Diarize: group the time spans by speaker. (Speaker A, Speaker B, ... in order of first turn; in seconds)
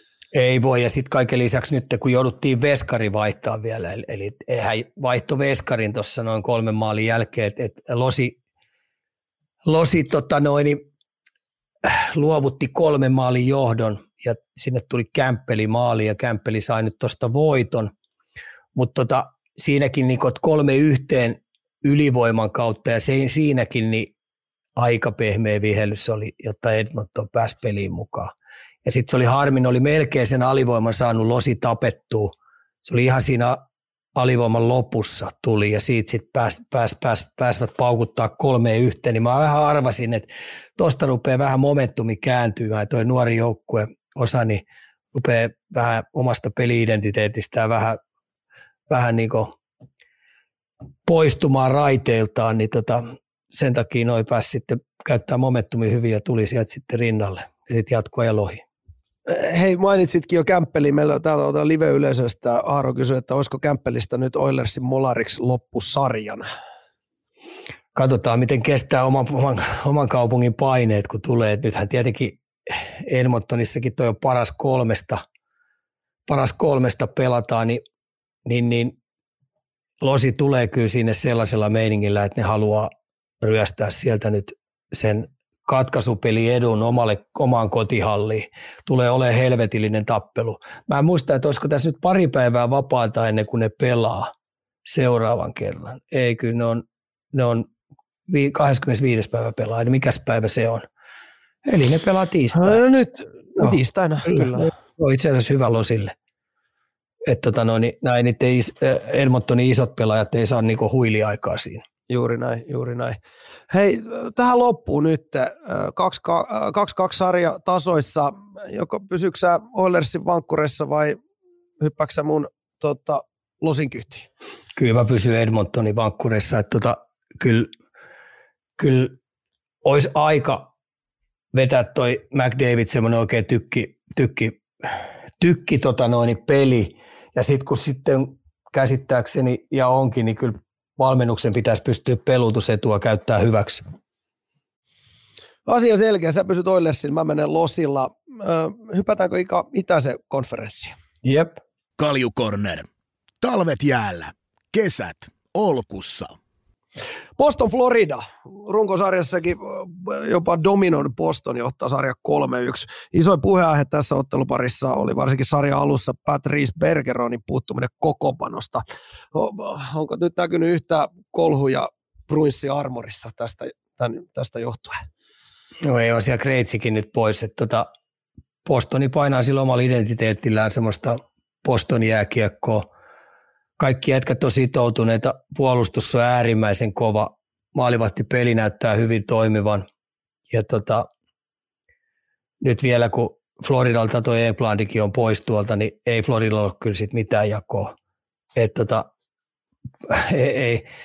Speaker A: 0.3-8.4, 9.7-10.8, 11.8-17.9, 18.8-24.1, 24.8-28.3, 28.9-33.6, 34.2-40.3, 40.8-48.0, 48.9-49.5, 51.0-58.6, 68.0-75.2, 76.3-77.8, 78.5-79.0, 80.0-82.9, 83.4-94.3, 94.9-97.7, 98.3-100.8, 101.7-102.8, 104.3-106.1, 107.3-111.8, 124.8-127.7, 128.8-129.2, 129.8-130.7, 131.5-143.8, 151.2-151.6, 175.8-177.9, 178.7-182.9, 183.8-189.9, 190.5-191.1, 192.6-197.9, 198.6-199.1, 200.1-200.9
Speaker B: 59.3-66.5, 102.5-104.7, 112.1-113.2, 113.7-121.2, 121.8-124.3, 145.7-150.9, 157.4-175.0
Speaker C: 152.0-152.9, 153.4-156.4